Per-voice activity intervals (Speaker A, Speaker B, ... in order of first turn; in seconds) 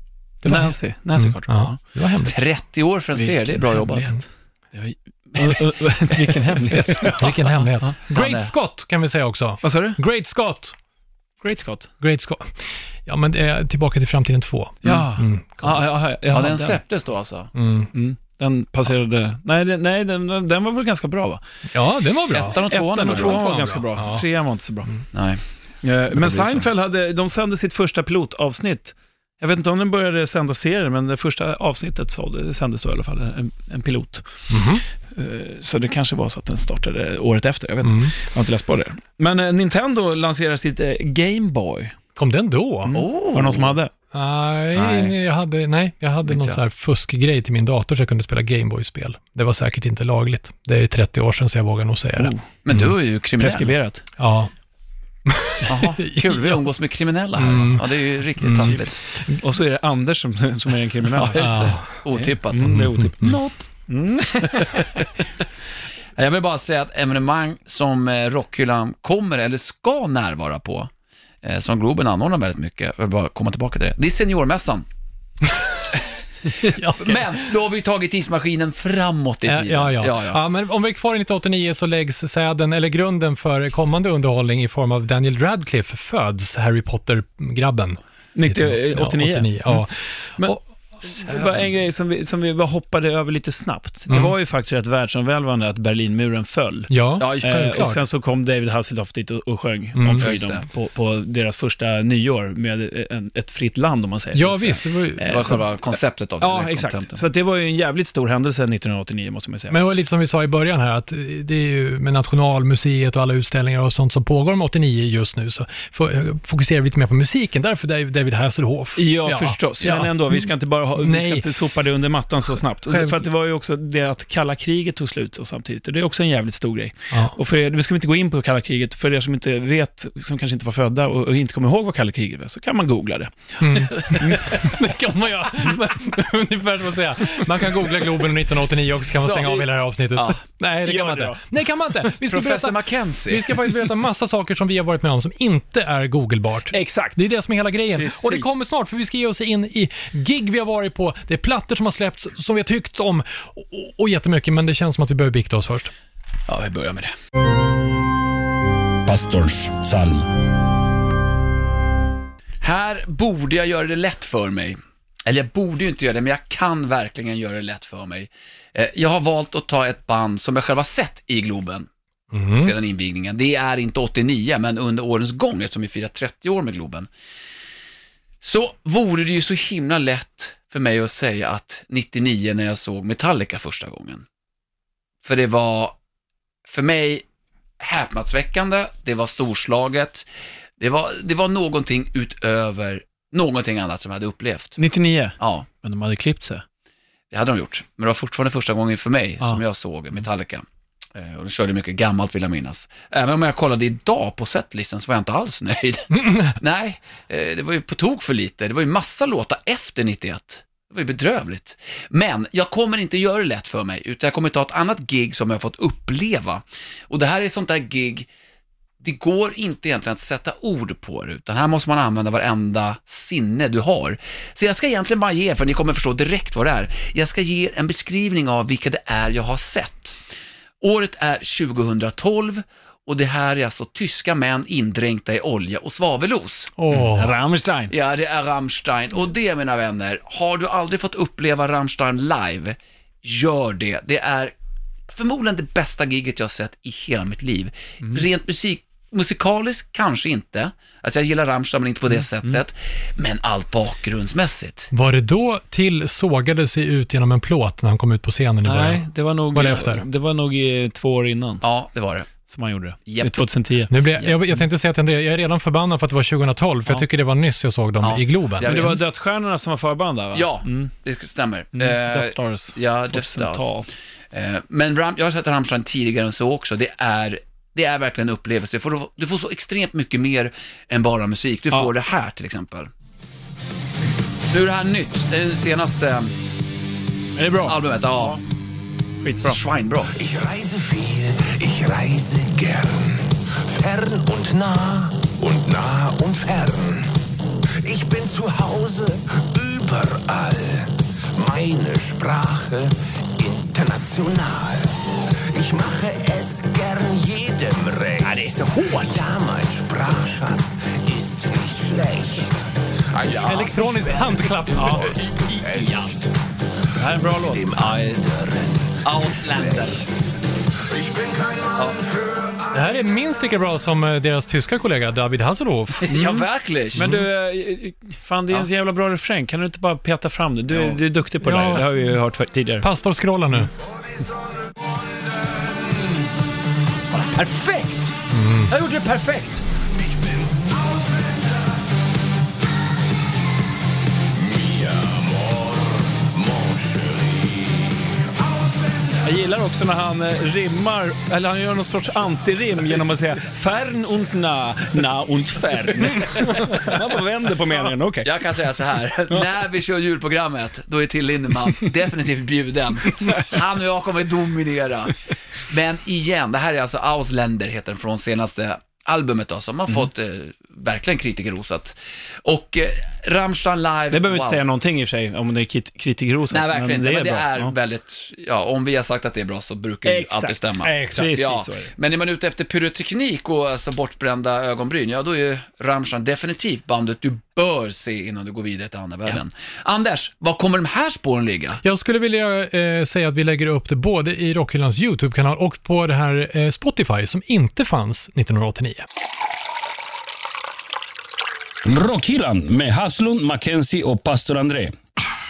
Speaker A: 0.4-1.8, 3.1-4.2, 4.7-7.9, 9.6-10.0, 11.4-11.9, 14.8-16.8, 17.9-21.4, 22.6-24.9, 25.8-34.2, 35.1-41.9, 42.8-43.9, 52.2-52.4, 53.4-54.0, 59.4-64.9, 88.3-89.8, 90.4-109.8, 119.0-134.6, 140.8-141.4, 146.7-147.2, 147.9-148.5, 194.8-196.6, 236.9-237.9, 258.6-261.6, 262.5-263.9, 268.6-270.9, 271.7-273.9, 287.4-288.4, 289.2-289.6, 314.8-315.1, 316.9-317.7, 326.1-332.9, 349.2-358.4, 374.1-377.7, 380.0-381.9
Speaker B: 0.4-2.4, 7.0-10.7, 12.0-12.5, 13.0-15.8, 17.5-17.9, 21.7-24.2, 34.5-34.8, 37.8-38.1, 42.1-43.0, 44.1-52.9, 54.2-54.5, 55.3-56.6, 57.4-59.4, 61.4-61.9, 62.6-63.4, 75.5-75.8, 76.7-77.2, 79.5-91.5, 94.1-94.3, 96.9-98.0, 99.9-100.3, 104.3-105.6, 109.7-121.5, 122.9-123.2, 127.1-127.3, 133.6-155.9, 172.3-172.7, 206.2-206.5, 236.8-237.3, 254.9-260.1, 263.9-268.8, 313.4-315.1, 322.7-326.1, 327.0-327.3, 331.4-331.9, 332.8-333.7, 338.3-338.7, 391.8-399.1
Speaker C: 2.2-4.2, 6.9-7.3, 8.1-8.5, 16.3-17.5, 22.3-23.4, 25.1-25.4, 26.1-26.7, 42.9-43.8, 44.7-45.1, 46.2-46.6, 52.6-53.7, 55.6-59.0, 61.1-63.4, 64.7-65.0, 66.2-70.9, 71.4-74.9, 76.6-80.4, 97.2-97.8, 100.2-100.6, 105.2-107.2, 139.2-140.4, 142.2-143.6, 156.5-157.1, 162.6-171.9, 172.6-177.1, 178.4-184.2, 185.2-185.9, 186.7-187.2, 187.8-190.3, 190.8-194.8, 195.4-195.7, 197.3-218.3, 219.0-230.2, 230.8-236.7, 237.9-244.5, 245.1-254.9, 261.6-262.3, 263.1-263.4, 264.1-264.5, 268.0-269.0, 270.3-273.7, 274.3-282.9, 284.5-286.3, 287.6-288.4, 289.4-290.1, 308.2-309.2, 313.3-313.7, 315.7-316.1, 317.7-318.1, 319.0-320.0, 326.0-327.1, 330.7-331.0, 337.1-338.1, 338.7-339.6, 356.1-356.9, 358.2-365.1, 365.7-374.6, 376.5-391.8
Speaker D: 159.0-160.3, 401.8-404.9
Speaker E: 290.1-297.2, 297.7-316.3, 317.3-320.1, 320.8-322.9, 340.1-341.6, 344.3-349.3